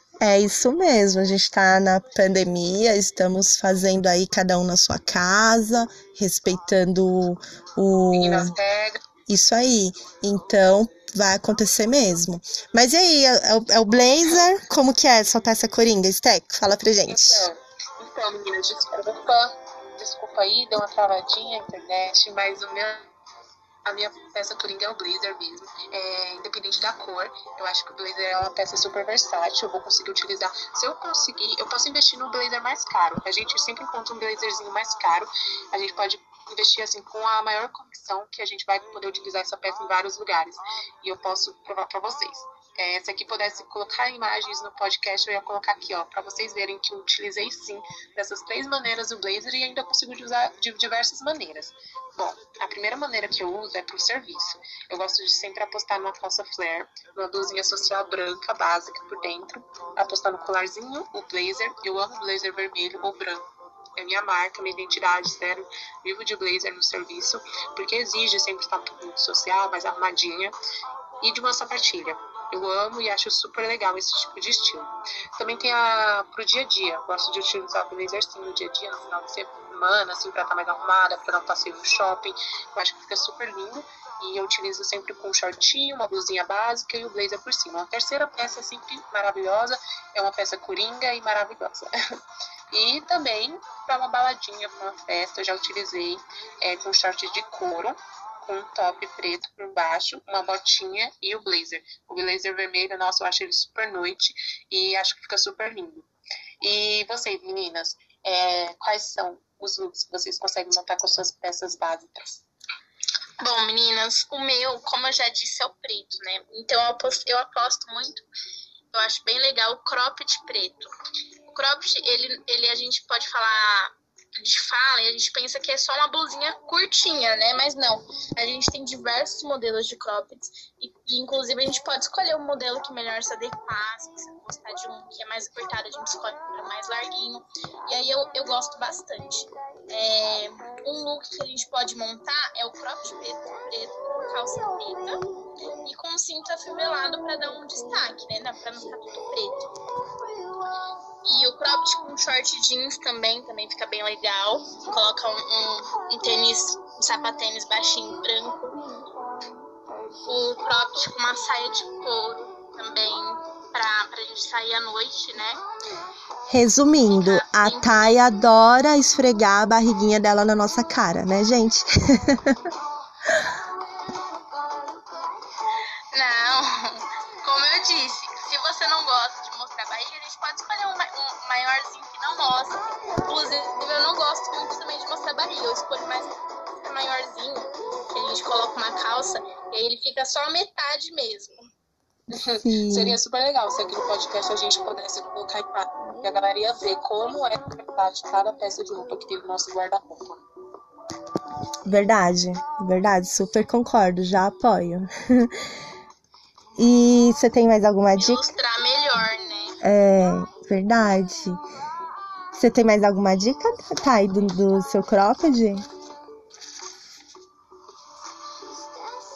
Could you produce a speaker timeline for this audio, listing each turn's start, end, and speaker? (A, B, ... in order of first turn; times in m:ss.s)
0:00.2-0:08.6 A
0:08.1-0:09.0 B
0:09.3-0:17.5 A
0:17.1-0:23.1 B
0:23.8-1:10.5 B
1:11.2-1:31.9 B
1:32.7-1:46.1 B
1:46.6-1:52.4 B
1:53.4-1:58.2 C
1:58.9-2:00.9 C
2:01.5-2:25.2 C
2:25.8-2:29.7 C
2:31.2-2:38.8 C
2:40.2-2:45.6 C
2:46.5-2:52.6 A
2:47.1-2:48.2 C
2:56.1-3:11.6 C
3:12.3-3:20.4 B
3:12.5-3:13.2 A
3:21.9-3:25.6 A
3:26.8-3:28.5 A
3:28.2-3:29.8 C
3:29.8-3:31.6 A
3:32.5-3:35.8 A